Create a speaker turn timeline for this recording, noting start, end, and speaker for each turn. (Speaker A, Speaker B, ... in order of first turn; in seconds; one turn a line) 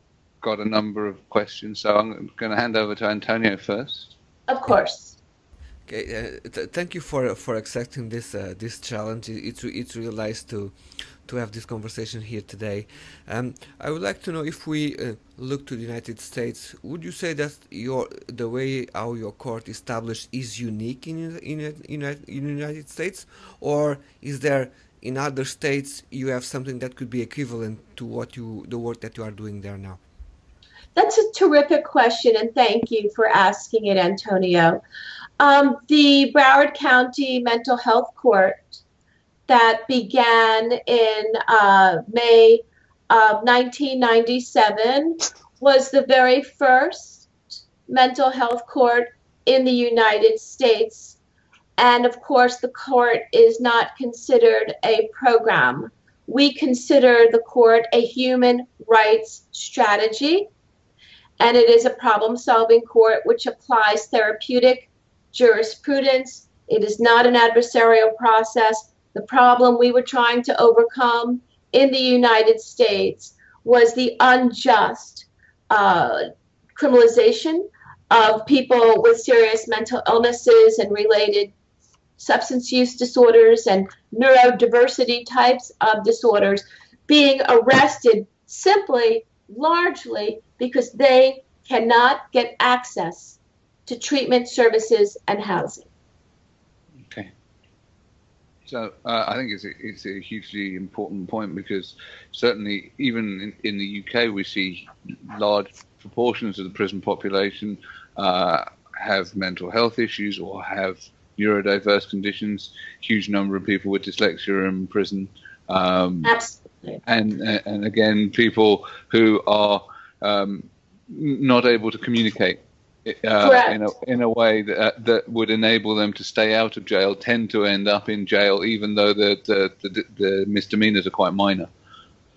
Speaker A: 0.4-4.1
Speaker B: 4.5-5.2
Speaker C: 5.9-30.0
Speaker B: 30.9-34.8
Speaker B: 35.4-38.8
Speaker B: 39.5-47.3
Speaker B: 47.9-51.2
Speaker B: 51.8-60.5
Speaker B: 61.4-76.2
Speaker B: 76.8-81.5
Speaker B: 82.2-95.9
Speaker A: 97.0-97.3
Speaker A: 98.7-116.3
Speaker B: 116.2-117.0
Speaker A: 117.0-131.7
Speaker B: 123.4-123.8